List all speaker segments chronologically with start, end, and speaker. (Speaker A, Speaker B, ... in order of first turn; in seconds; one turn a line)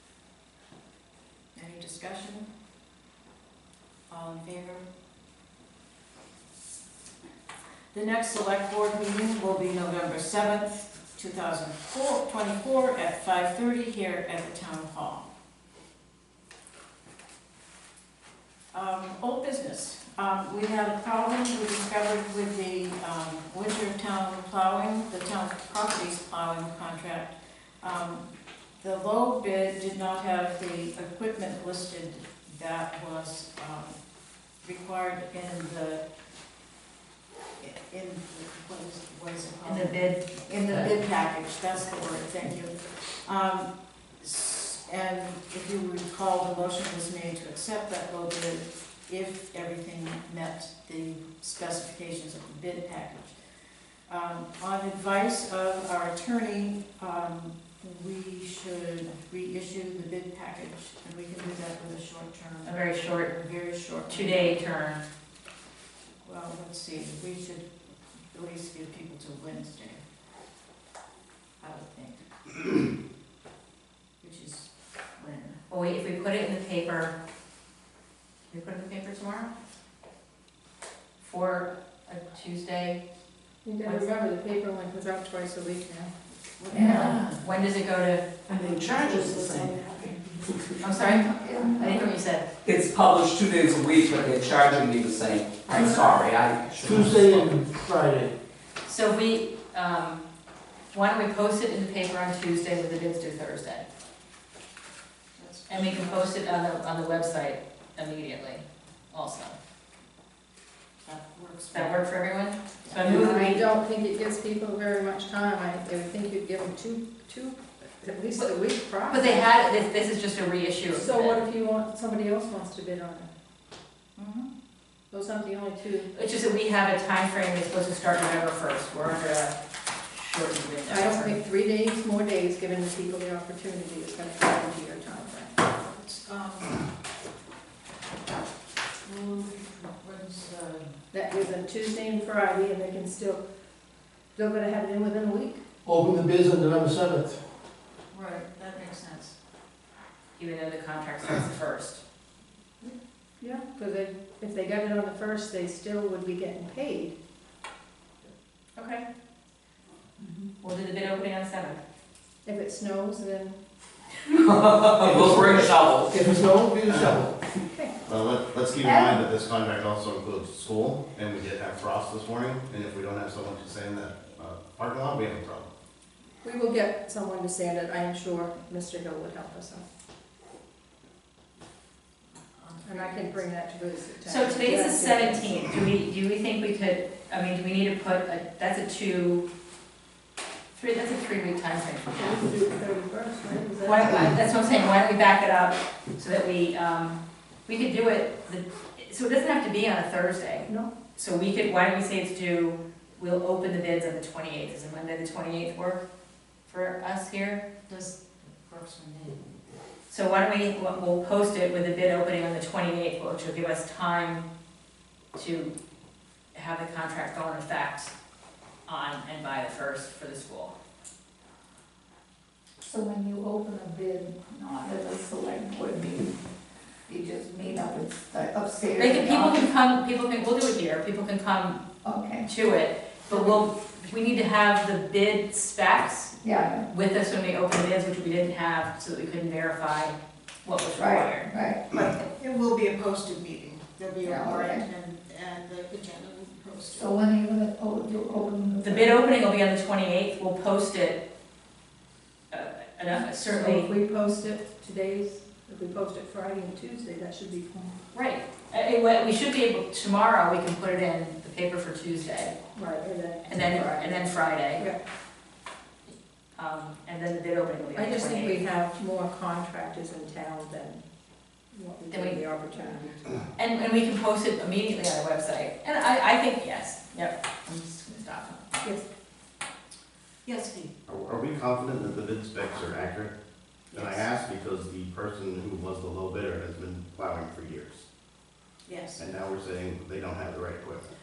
Speaker A: 1.6-2.5
Speaker A: 4.1-4.9
Speaker A: 7.9-15.3
Speaker A: 18.7-34.0
Speaker A: 34.6-36.0
Speaker A: 37.6-53.4
Speaker B: 39.6-40.9
Speaker A: 54.1-64.6
Speaker B: 62.6-63.3
Speaker B: 64.1-65.0
Speaker A: 66.2-70.0
Speaker A: 71.6-72.8
Speaker A: 74.2-75.6
Speaker B: 75.7-77.2
Speaker B: 78.5-79.5
Speaker B: 81.2-83.0
Speaker C: 83.6-86.1
Speaker A: 86.6-87.4
Speaker B: 86.8-88.3
Speaker D: 88.8-89.7
Speaker C: 89.1-89.4
Speaker B: 90.8-92.5
Speaker E: 91.2-92.1
Speaker D: 92.6-97.6
Speaker F: 95.8-96.1
Speaker F: 96.8-98.3
Speaker B: 98.8-100.2
Speaker B: 100.9-103.9
Speaker A: 105.4-106.4
Speaker B: 105.7-109.6
Speaker A: 111.0-112.0
Speaker B: 111.7-113.6
Speaker A: 112.8-113.4
Speaker C: 113.0-119.5
Speaker B: 119.1-121.4
Speaker C: 120.9-123.3
Speaker A: 124.2-124.5
Speaker C: 125.1-126.1
Speaker B: 126.1-129.5
Speaker B: 130.1-131.3
Speaker C: 130.9-135.5
Speaker A: 135.9-136.8
Speaker A: 139.0-140.9
Speaker C: 141.1-143.4
Speaker C: 144.4-145.7
Speaker F: 145.8-147.4
Speaker A: 148.1-149.4
Speaker B: 150.4-152.0
Speaker C: 152.8-157.2
Speaker B: 158.8-159.1
Speaker B: 160.6-161.8
Speaker C: 162.4-163.6
Speaker D: 164.3-166.3
Speaker F: 165.1-165.6
Speaker G: 165.2-165.7
Speaker F: 166.1-167.3
Speaker G: 166.9-167.2
Speaker C: 167.6-167.9
Speaker G: 168.1-175.7
Speaker C: 176.4-179.8
Speaker A: 182.6-183.5
Speaker C: 182.8-185.5
Speaker B: 184.2-189.5
Speaker B: 190.8-192.3
Speaker C: 192.1-194.3
Speaker B: 193.8-206.1
Speaker C: 200.7-200.9
Speaker B: 206.7-207.7
Speaker A: 207.9-209.5
Speaker B: 210.1-214.4
Speaker B: 215.3-215.8
Speaker B: 216.5-218.1
Speaker B: 218.9-220.7
Speaker E: 222.9-226.3
Speaker E: 227.1-229.6
Speaker B: 229.0-231.8
Speaker E: 232.1-232.5
Speaker B: 232.4-236.3
Speaker E: 236.4-236.9
Speaker B: 236.9-241.5
Speaker E: 241.0-241.8
Speaker A: 241.9-247.2
Speaker E: 244.2-244.8
Speaker E: 247.0-249.1
Speaker B: 248.8-251.2
Speaker B: 252.5-253.9
Speaker C: 253.2-257.9
Speaker B: 258.1-262.6
Speaker C: 262.8-265.0
Speaker B: 263.4-264.8
Speaker B: 266.6-268.6
Speaker C: 267.9-271.0
Speaker C: 271.7-273.3
Speaker B: 272.1-272.4
Speaker B: 273.6-278.7
Speaker A: 280.4-280.9
Speaker G: 281.1-283.3
Speaker G: 283.9-288.1
Speaker A: 283.9-284.3
Speaker A: 288.9-289.2
Speaker G: 289.2-291.1